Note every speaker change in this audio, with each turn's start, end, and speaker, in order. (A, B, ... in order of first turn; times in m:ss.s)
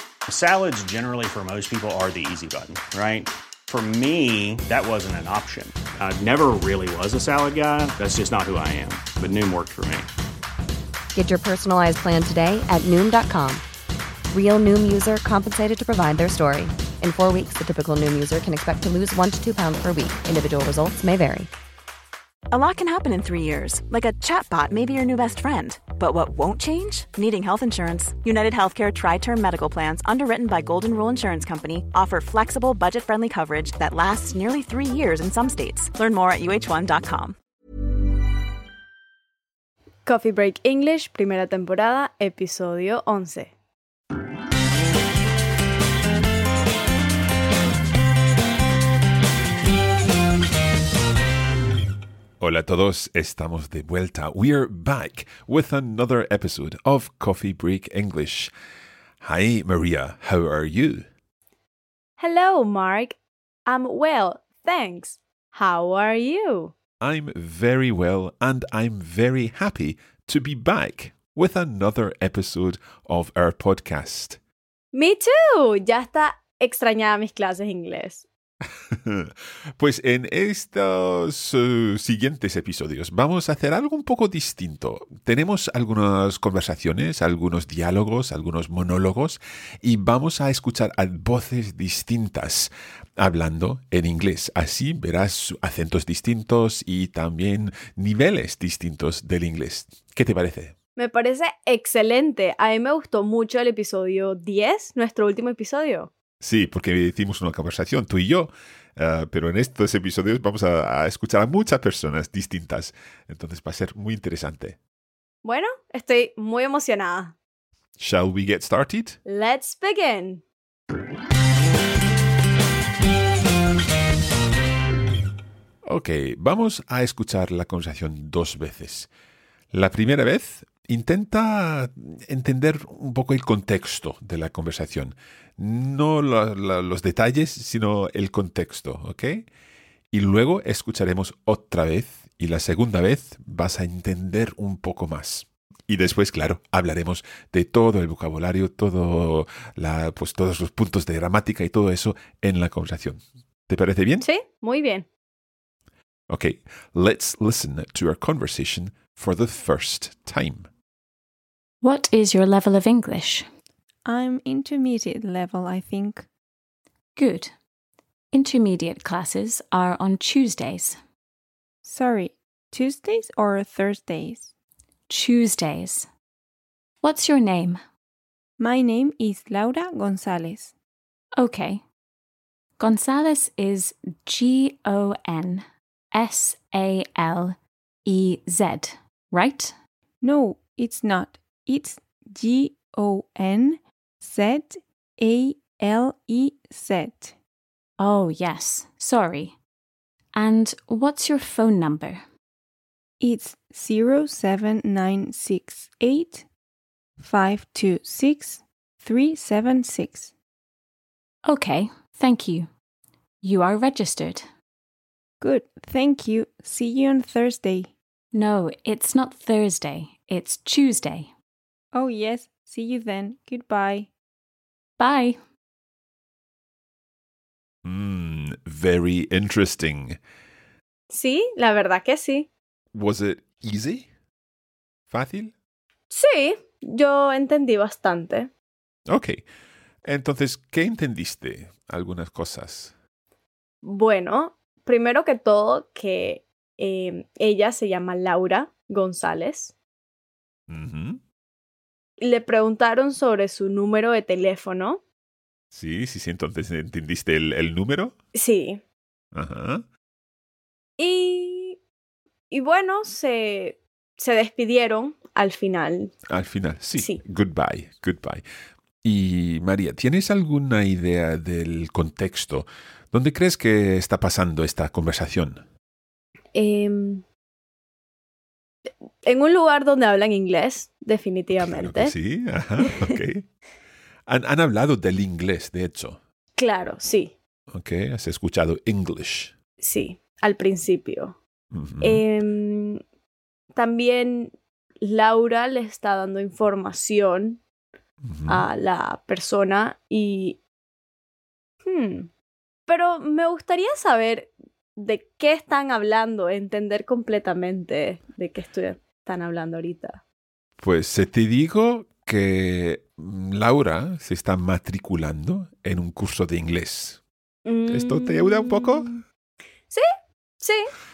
0:00.3-0:10.1 A
0:11.1-0:13.6 B
0:14.3-0:21.5 B
0:22.5-0:37.4 C
0:40.0-0:43.5 D
0:52.4-0:58.5 E
0:59.2-1:01.1 E
1:02.2-1:06.7 D
1:07.0-1:14.4 E
1:14.9-1:18.2 D
1:18.9-1:40.7 E
1:41.0-1:46.1 D
1:46.4-1:54.8 E
1:55.4-1:57.4 D
1:58.0-1:59.2 E
1:59.2-2:00.4 D
2:05.8-2:09.1 E
2:09.7-2:19.5 E
2:20.1-2:34.2 E
2:34.2-2:35.1 D
2:36.3-2:40.7 E
2:41.8-2:43.4 F
2:44.1-2:46.3 G
2:47.2-2:47.5 F
2:48.3-2:51.0 F
2:51.8-2:54.5 G
2:55.1-2:56.1 F
2:57.0-2:57.8 F
2:58.6-3:00.7 G
3:01.4-3:01.8 F
3:02.8-3:09.7 F
3:10.2-3:17.3 G
3:18.0-3:19.6 F
3:20.3-3:22.2 F
3:23.2-3:26.4 G
3:27.2-3:30.3 G
3:31.4-3:32.7 F
3:33.4-3:34.5 F
3:35.4-3:37.9 G
3:38.3-3:41.3 F
3:41.9-3:44.1 G
3:45.0-3:45.4 F
3:47.8-3:50.2 E
3:51.1-3:52.5 D
3:52.9-3:54.1 E
3:55.1-3:55.5 E
3:56.1-3:58.5 D
3:59.1-3:59.4 E
4:00.0-4:02.9 E
4:03.8-4:09.7 D
4:10.7-4:11.2 E
4:12.2-4:15.0 D
4:15.7-4:18.1 E
4:18.3-4:18.8 D
4:19.3-4:19.8 E
4:21.0-4:21.8 D
4:22.5-4:26.1 D
4:26.3-4:28.4 E
4:27.0-4:27.2 D
4:29.0-4:35.6 E
4:36.5-4:37.2 D
4:39.2-4:42.1 D
4:41.6-4:43.5 E
4:42.8-4:43.2 D
4:44.3-4:46.2 E
4:46.6-4:47.3 D
4:47.7-4:49.5 E
4:49.8-4:51.4 D
4:51.7-4:52.2 E
4:52.0-4:53.0 D
4:53.7-4:57.6 D
4:58.2-4:58.7 E
4:58.5-5:00.6 D
5:01.8-5:02.3 D
5:02.9-5:10.2 D
5:10.8-5:17.2 E
5:17.6-5:19.2 D
5:17.9-5:19.1 E
5:20.6-5:20.9 D